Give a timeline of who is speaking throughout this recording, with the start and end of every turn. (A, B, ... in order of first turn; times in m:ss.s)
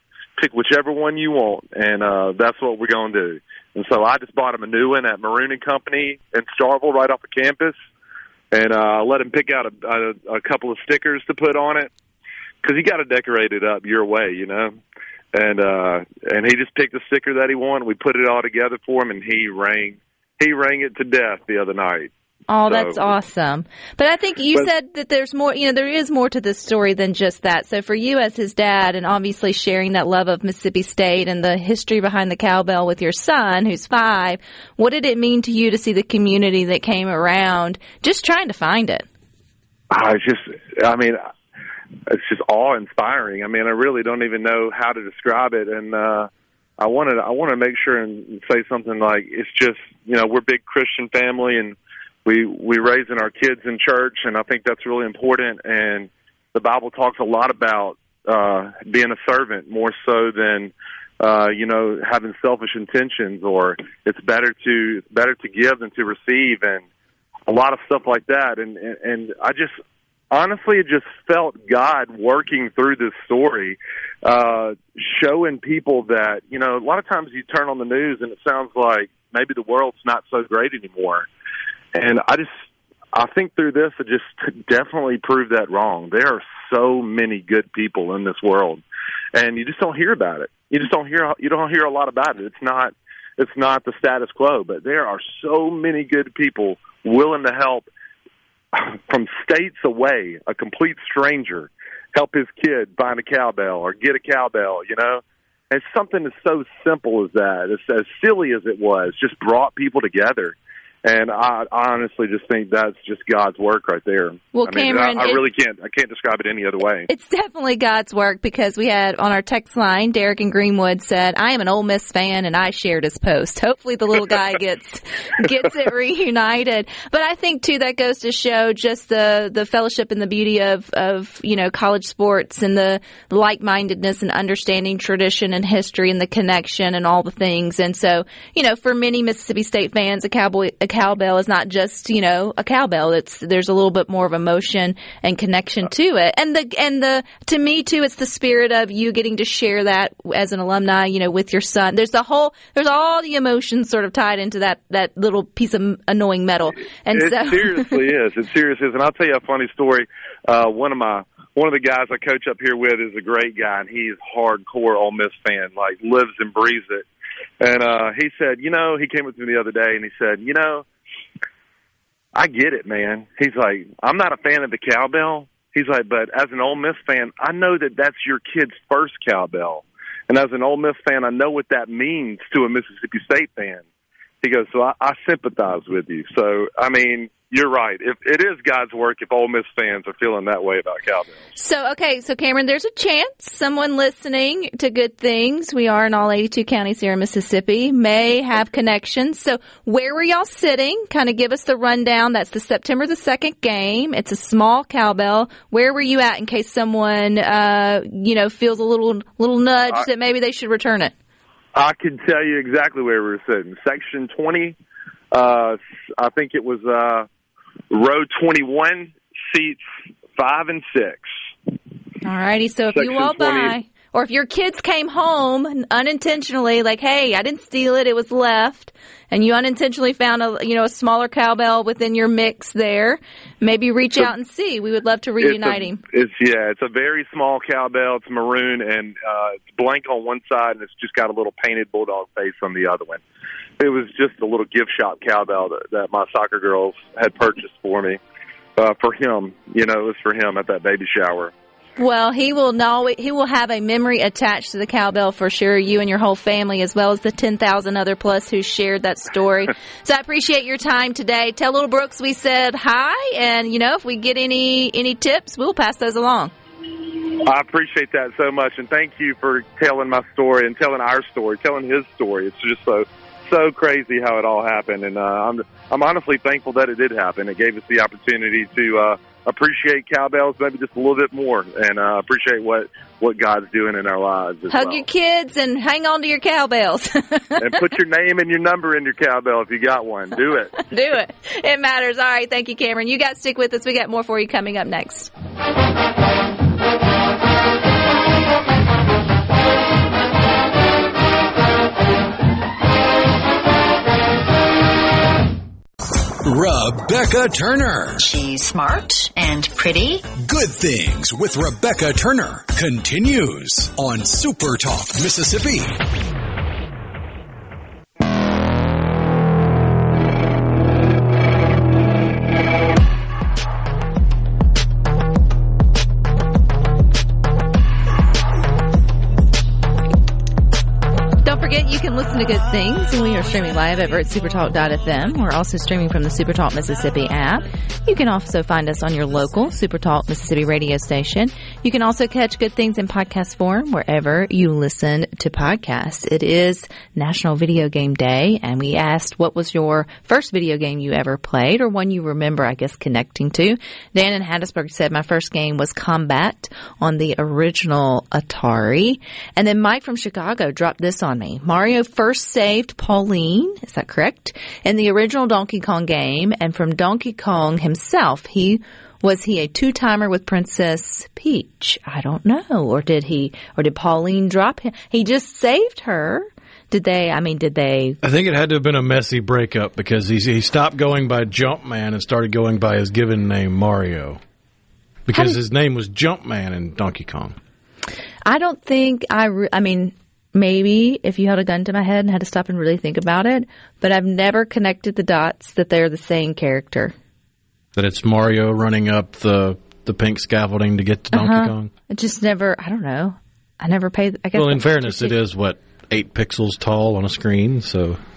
0:00.4-0:07.7 A
0:08.5-0:11.9 A
0:12.6-0:14.8 A
0:15.3-0:22.1 A
0:22.5-0:39.0 B
0:22.7-0:23.1 A
0:39.9-0:41.2 A
0:42.1-1:06.8 A
1:07.5-1:09.8 A
1:10.3-1:21.3 A
1:21.9-1:22.5 A
1:23.1-1:28.8 A
1:29.3-1:37.9 A
1:38.7-1:57.1 A
1:54.5-1:55.4 B
1:57.1-2:38.0 B
2:37.1-2:47.0 A
2:47.6-2:50.8 A
2:52.3-3:03.8 A
3:04.4-3:11.4 A
3:11.5-3:31.1 B
3:31.7-3:34.8 A
3:35.3-3:37.3 A
3:37.9-3:39.8 A
3:40.3-3:41.3 A
3:42.2-3:56.0 B
3:42.9-3:43.8 A
3:55.4-4:03.2 A
4:03.8-4:08.2 A
4:08.8-4:11.5 A
4:12.0-4:26.5 B
4:27.4-4:45.0 A
4:44.7-4:47.9 B
4:47.6-4:50.8 A
4:50.8-4:55.3 B
5:06.4-5:08.2 C
5:08.2-5:10.3 D
5:10.3-5:16.0 C
5:31.4-6:18.2 B
6:18.2-6:24.4 E
6:25.3-6:27.6 E
6:25.3-6:25.6 B
6:28.4-6:37.1 B
6:38.0-6:41.9 E
6:41.3-6:45.3 B
6:44.5-6:48.2 E